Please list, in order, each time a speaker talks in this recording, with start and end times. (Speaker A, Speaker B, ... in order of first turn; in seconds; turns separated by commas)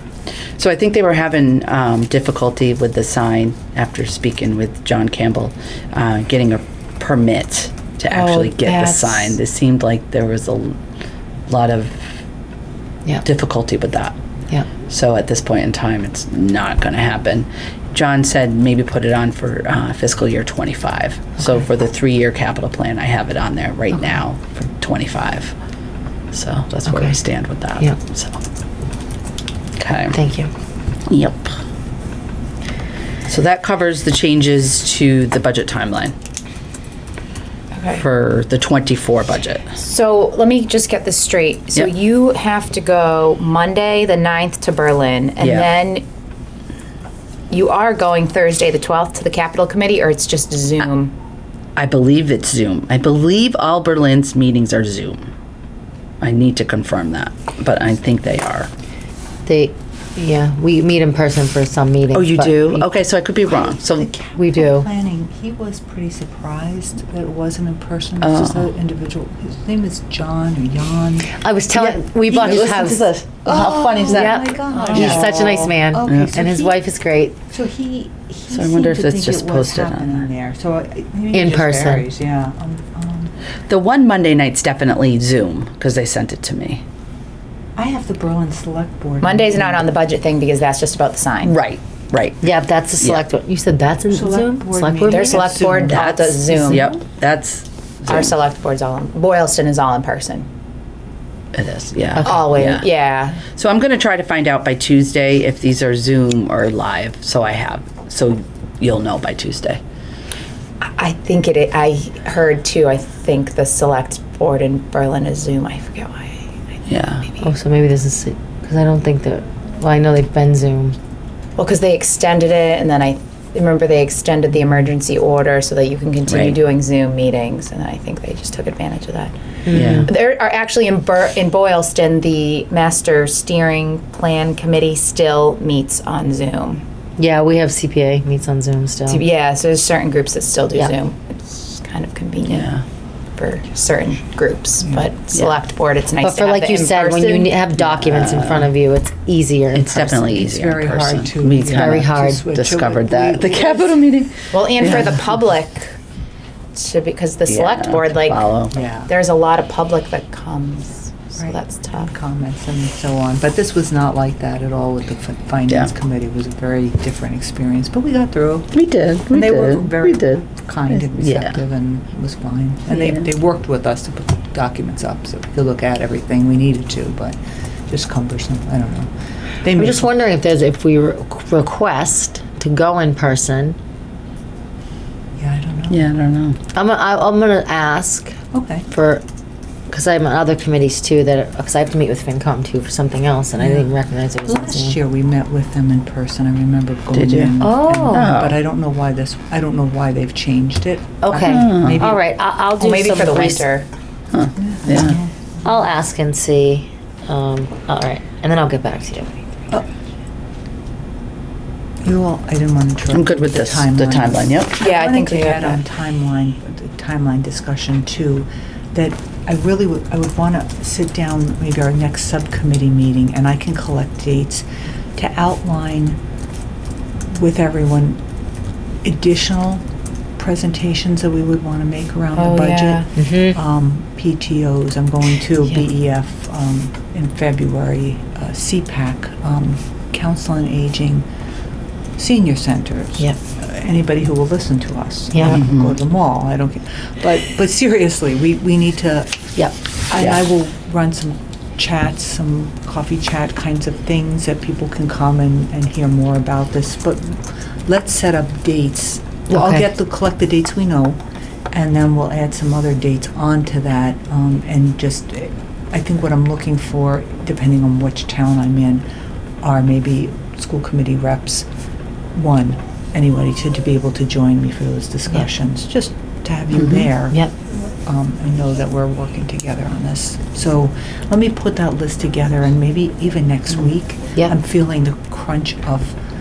Speaker A: 0.6-10.8, Speaker B: 8.1-9.4, Speaker A: 11.5-12.0, Speaker A: 13.2-14.1, Speaker A: 14.9-25.5, Speaker A: 26.3-28.4, Speaker C: 26.9-27.2, Speaker A: 29.8-30.1, Speaker C: 30.1-30.5, Speaker A: 31.1-31.5, Speaker A: 33.3-36.1, Speaker B: 37.7-38.0, Speaker A: 37.9-39.7, Speaker B: 39.8-46.0, Speaker A: 45.4-45.7, Speaker B: 47.5-51.1, Speaker A: 51.8-55.3, Speaker A: 56.2-58.7, Speaker C: 59.5-62.9, Speaker A: 62.1-64.1, Speaker D: 63.5-71.3, Speaker C: 64.3-64.9, Speaker A: 68.2-68.7, Speaker C: 71.3-73.1, Speaker A: 71.7-76.3, Speaker D: 72.5-72.9, Speaker D: 73.4-76.8, Speaker C: 74.1-77.3, Speaker D: 77.5-83.3, Speaker A: 78.5-80.2, Speaker C: 81.3-82.0, Speaker A: 83.7-86.8, Speaker D: 87.8-89.9, Speaker B: 89.2-91.5, Speaker A: 91.4-92.4, Speaker C: 92.4-95.5, Speaker D: 94.1-96.8, Speaker B: 95.1-96.9, Speaker A: 95.9-98.3, Speaker B: 98.1-100.5, Speaker A: 101.5-102.9, Speaker C: 102.2-102.5, Speaker B: 102.2-103.4, Speaker A: 103.4-109.8, Speaker B: 110.8-116.5, Speaker A: 116.9-117.3, Speaker C: 117.4-121.0, Speaker B: 121.6-129.3, Speaker A: 126.3-126.6, Speaker C: 129.7-130.1, Speaker A: 129.7-130.1, Speaker B: 130.0-136.8, Speaker C: 137.2-139.2, Speaker B: 139.1-142.7, Speaker A: 142.5-142.8, Speaker B: 143.4-147.6, Speaker D: 144.8-145.1, Speaker C: 146.2-150.4, Speaker A: 147.8-148.7, Speaker A: 149.7-155.2, Speaker D: 150.2-154.0, Speaker C: 151.6-152.5, Speaker B: 154.5-155.9, Speaker B: 156.7-158.5, Speaker A: 157.5-158.7, Speaker D: 158.7-159.1, Speaker B: 159.1-162.1, Speaker D: 161.4-168.7, Speaker A: 168.7-171.6, Speaker D: 169.3-177.4, Speaker D: 177.9-179.1, Speaker D: 179.6-180.1, Speaker C: 179.7-183.8, Speaker D: 185.4-186.1, Speaker A: 185.9-186.6, Speaker C: 186.7-188.3, Speaker D: 188.5-188.9, Speaker C: 188.9-189.2, Speaker C: 189.9-195.0, Speaker D: 193.6-202.2, Speaker A: 197.1-198.6, Speaker C: 197.6-198.3, Speaker C: 201.2-203.6, Speaker A: 201.4-202.0, Speaker B: 202.8-203.9, Speaker A: 204.3-205.2, Speaker D: 204.6-205.3, Speaker C: 205.6-209.3, Speaker D: 212.0-224.6, Speaker A: 213.1-214.8, Speaker B: 214.8-215.8, Speaker D: 225.2-226.2, Speaker D: 227.3-228.2, Speaker D: 229.0-229.8, Speaker D: 230.4-241.2, Speaker B: 232.3-233.1, Speaker C: 233.2-233.6, Speaker D: 242.2-249.5, Speaker C: 245.3-245.6, Speaker A: 245.5-245.9, Speaker C: 249.6-250.3, Speaker D: 250.1-261.2, Speaker C: 259.5-259.8, Speaker D: 261.7-269.0, Speaker D: 269.6-271.6, Speaker D: 272.3-277.4, Speaker A: 276.8-277.1, Speaker D: 278.1-286.1